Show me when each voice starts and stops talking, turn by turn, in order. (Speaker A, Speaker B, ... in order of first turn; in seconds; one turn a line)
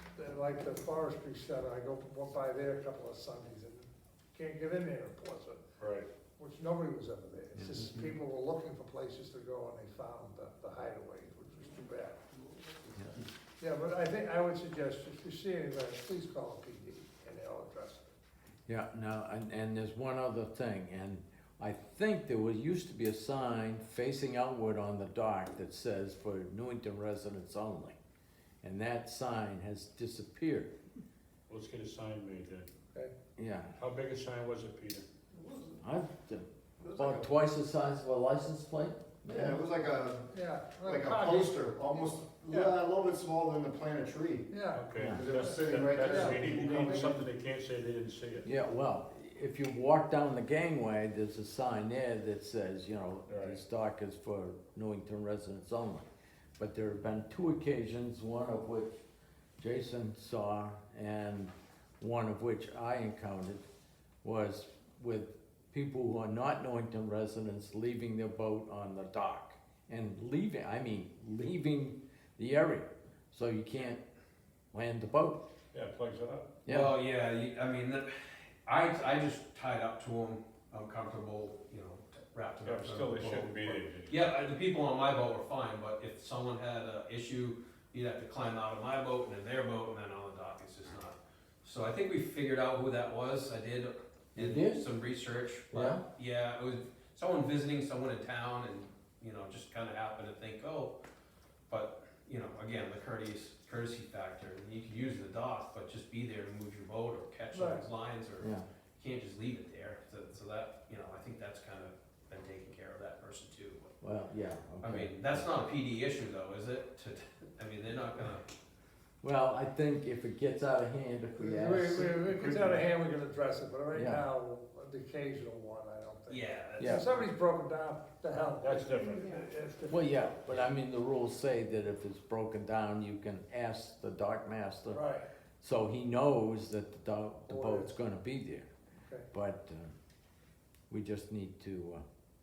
Speaker A: 0.2-5.6
Speaker B: 5.8-6.1
Speaker A: 6.4-12.4
Speaker A: 13.6-18.2
Speaker C: 18.7-28.0
Speaker C: 28.6-30.7
Speaker B: 31.5-32.7
Speaker C: 33.4-33.8
Speaker B: 33.8-35.0
Speaker D: 35.3-35.8
Speaker C: 35.8-39.6
Speaker D: 36.8-37.3
Speaker D: 39.3-40.3
Speaker A: 40.3-41.7
Speaker D: 40.8-47.2
Speaker A: 42.5-42.8
Speaker A: 44.5-47.1
Speaker B: 44.7-48.5
Speaker C: 45.0-45.2
Speaker C: 48.4-56.1
Speaker B: 53.3-53.6
Speaker C: 56.6-59.0
Speaker C: 59.6-63.7
Speaker C: 64.2-74.0
Speaker C: 74.7-75.5
Speaker B: 75.7-76.5
Speaker C: 76.7-77.0
Speaker E: 76.7-101.0
Speaker B: 82.6-84.2
Speaker C: 94.3-94.9
Speaker C: 95.7-96.0
Speaker E: 101.7-113.9
Speaker A: 107.5-107.9
Speaker C: 108.4-108.7
Speaker C: 114.0-115.5
Speaker E: 114.8-118.5
Speaker C: 119.2-122.2
Speaker A: 121.4-130.4
Speaker B: 122.0-122.9
Speaker C: 123.9-124.2
Speaker E: 126.3-127.2
Speaker C: 126.8-127.0
Speaker B: 128.6-129.4
Speaker C: 129.9-135.0
Speaker A: 134.9-135.2
Speaker C: 135.6-138.7
Speaker A: 137.5-138.0
Speaker A: 139.0-139.3
Speaker C: 139.3-139.9
Speaker C: 140.9-142.0